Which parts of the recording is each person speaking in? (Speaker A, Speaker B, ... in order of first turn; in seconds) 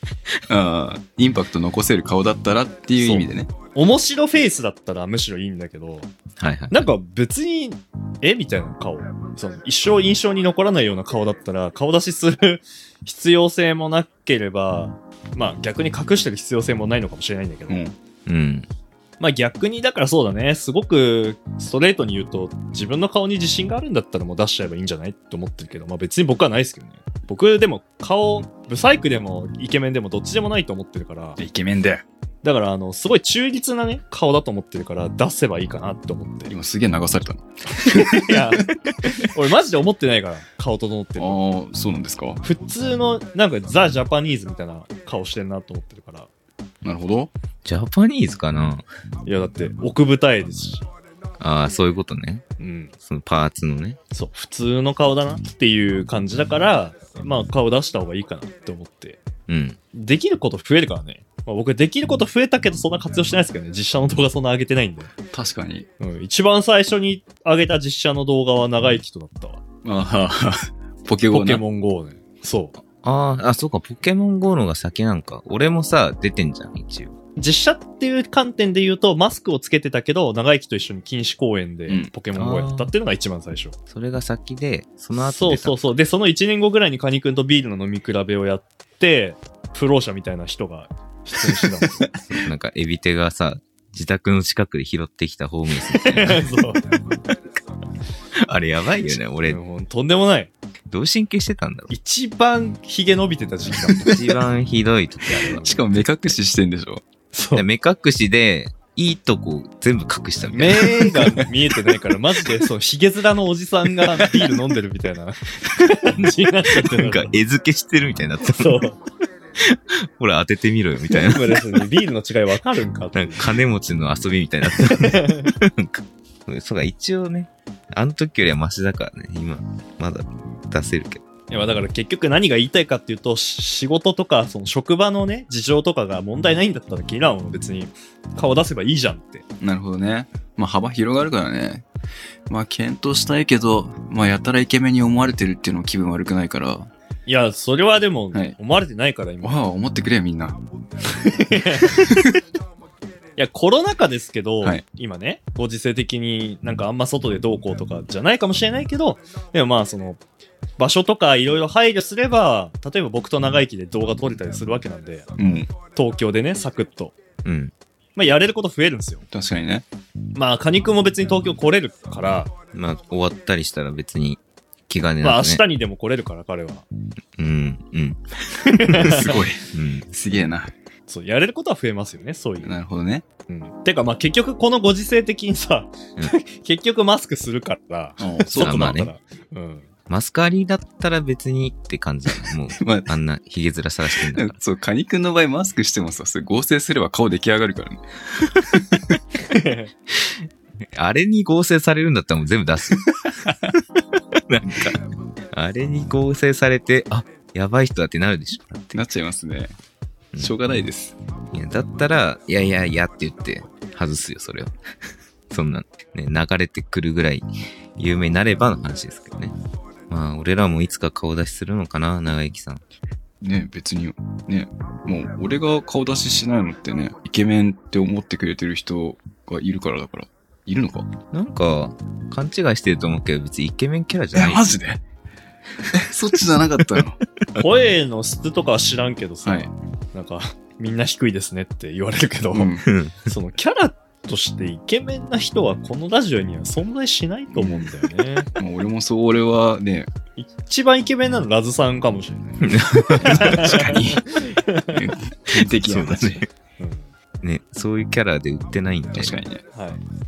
Speaker A: 0.5-3.5, 17.7-17.9, 31.4-32.0, 36.5-38.6, 41.2-42.4, 46.8-47.3, 65.3-65.9, 69.8-71.6, 91.5-92.2, 105.4-107.0, 139.6-141.9, 142.5-146.9, 149.4-150.6, 151.9-152.4, 165.4-165.7, 169.3-169.9, 178.7-180.7, 182.6-183.2, 188.2-189.0, 192.8-193.1, 194.3-198.1, 198.8-199.2, 208.9-209.8, 210.4-211.2, 223.4-231.1, 234.3-235.0, 235.9-237.2, 239.4-239.7, 242.5-242.9, 247.6-247.9, 248.6-250.1, 253.2-256.4, 259.1-259.6
Speaker B: 3.0-6.1, 6.7-17.8, 19.2-31.4, 32.4-36.5, 37.8-41.4, 42.4-46.3, 49.3-50.9, 52.6-52.9, 54.1-59.2, 59.9-65.1, 66.0-69.6, 71.3-72.8, 77.4-83.8, 85.2-92.1, 95.9-96.8, 99.5-100.5, 101.9-104.2, 105.4-105.8, 107.3-107.7, 110.5-117.3, 118.5-119.0, 121.1-123.6, 124.8-125.5, 131.5-139.4, 147.3-149.6, 151.3-152.0, 153.4-160.2, 160.8-165.3, 165.9-167.2, 168.2-169.2, 170.3-172.5, 175.2-176.9, 178.7-179.4, 181.1-182.8, 183.5-189.9, 199.5-199.9, 237.6-248.5, 250.4-255.0, 256.8-257.1, 259.7-260.0
Speaker C: 6.4-6.9, 18.3-18.7, 47.6-48.9, 51.4-52.5, 53.0-54.0, 59.5-59.8, 73.0-77.1, 82.3-82.9, 83.9-85.8, 92.3-96.5, 98.4-99.6, 100.9-101.9, 104.1-105.8, 107.5-111.5, 114.2-114.5, 116.2-118.9, 119.6-121.9, 123.1-131.2, 167.4-167.7, 172.7-175.6, 177.4-178.2, 179.7-180.1, 188.6-189.1, 190.1-194.6, 200.8-203.4, 204.5-205.0, 205.5-209.0, 211.5-214.7, 215.5-219.6, 220.1-222.8, 231.3-234.7, 242.9-243.2, 252.6-253.8, 255.5-256.5, 257.4-259.4